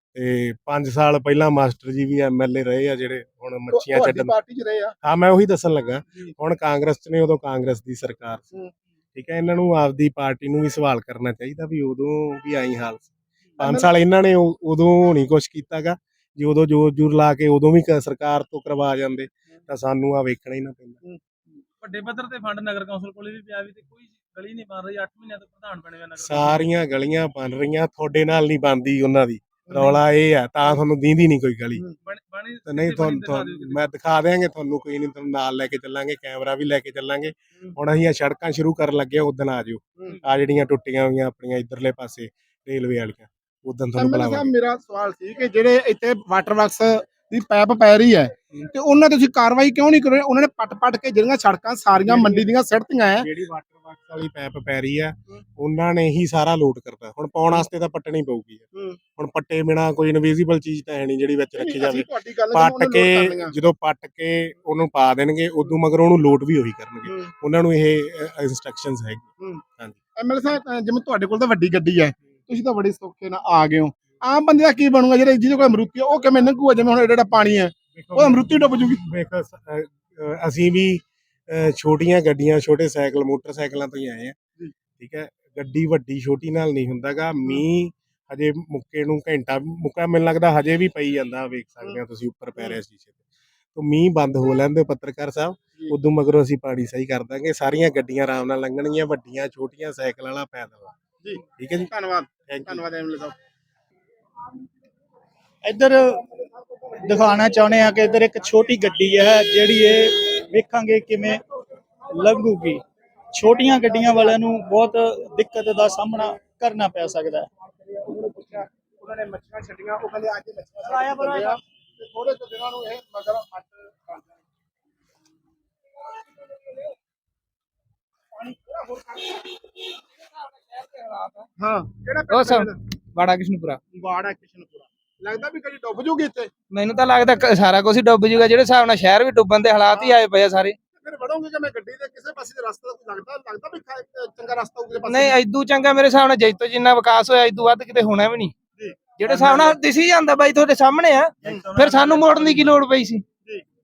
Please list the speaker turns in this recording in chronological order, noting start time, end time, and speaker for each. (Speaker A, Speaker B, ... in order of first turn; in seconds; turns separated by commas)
Speaker A: 0.1-4.3, Speaker B: 3.7-4.9, Speaker A: 5.0-8.5, Speaker A: 9.1-21.0, Speaker B: 13.6-13.9, Speaker C: 21.8-26.6, Speaker A: 26.2-31.8, Speaker B: 29.7-30.0, Speaker C: 32.0-33.9, Speaker A: 32.6-44.5, Speaker B: 43.9-53.3, Speaker A: 52.0-52.5, Speaker A: 53.2-58.6, Speaker A: 59.2-70.0, Speaker B: 61.6-63.5, Speaker B: 70.2-79.0, Speaker A: 77.9-84.3, Speaker A: 85.0-93.2, Speaker A: 93.7-100.9, Speaker B: 101.2-103.3, Speaker A: 101.6-101.9, Speaker A: 102.5-102.8, Speaker D: 105.6-106.2, Speaker B: 106.4-107.4, Speaker D: 107.0-111.4, Speaker D: 112.1-112.8, Speaker D: 113.3-117.5, Speaker B: 114.0-114.3, Speaker B: 117.7-124.3, Speaker D: 120.8-121.5, Speaker B: 128.4-129.3, Speaker E: 130.7-131.4, Speaker B: 131.6-132.8, Speaker E: 132.3-133.8, Speaker B: 133.9-136.5, Speaker E: 136.7-140.8, Speaker B: 139.9-140.2, Speaker B: 141.0-145.4, Speaker E: 145.0-148.5, Speaker B: 148.8-149.8, Speaker E: 149.2-153.2, Speaker B: 151.4-152.5